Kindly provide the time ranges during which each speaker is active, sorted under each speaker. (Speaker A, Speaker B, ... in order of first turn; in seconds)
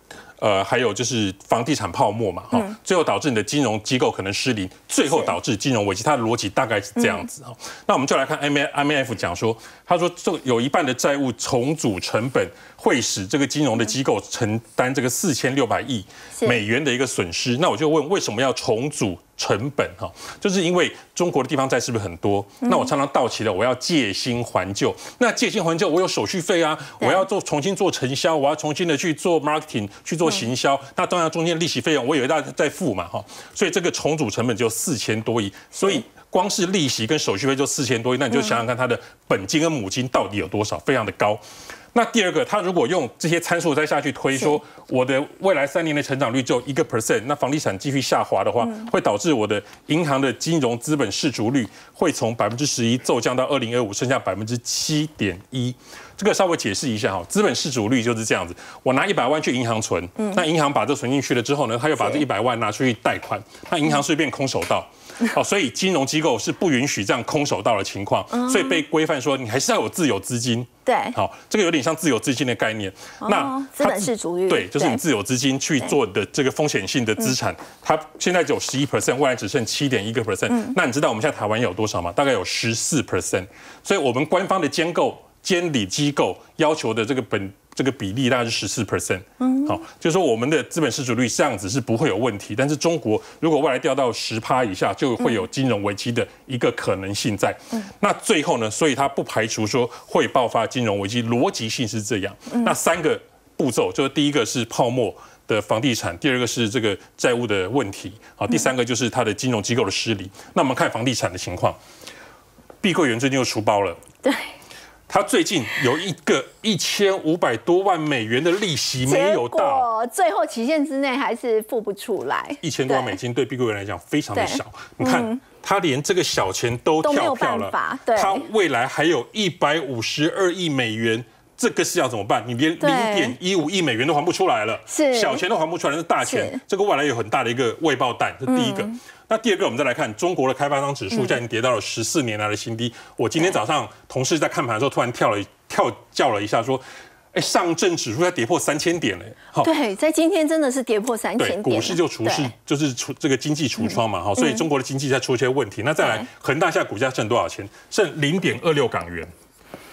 Speaker A: 0.4-41.4, 41.9-111.8, 112.8-114.0, 115.1-119.9, 122.6-149.7, 151.4-159.3
Speaker B: 16.4-16.6, 22.6-22.9, 27.0-27.2, 35.8-36.0, 38.3-38.6, 60.2-60.4, 68.3-68.8, 70.8-71.1, 73.2-75.0, 80.5-80.8, 89.4-89.8, 114.2-114.5, 119.0-123.2, 124.3-125.4, 127.0-128.4, 132.8-133.3, 134.9-135.4, 136.2-136.6, 138.5-138.9, 149.6-152.5, 153.9-154.6, 156.0-156.3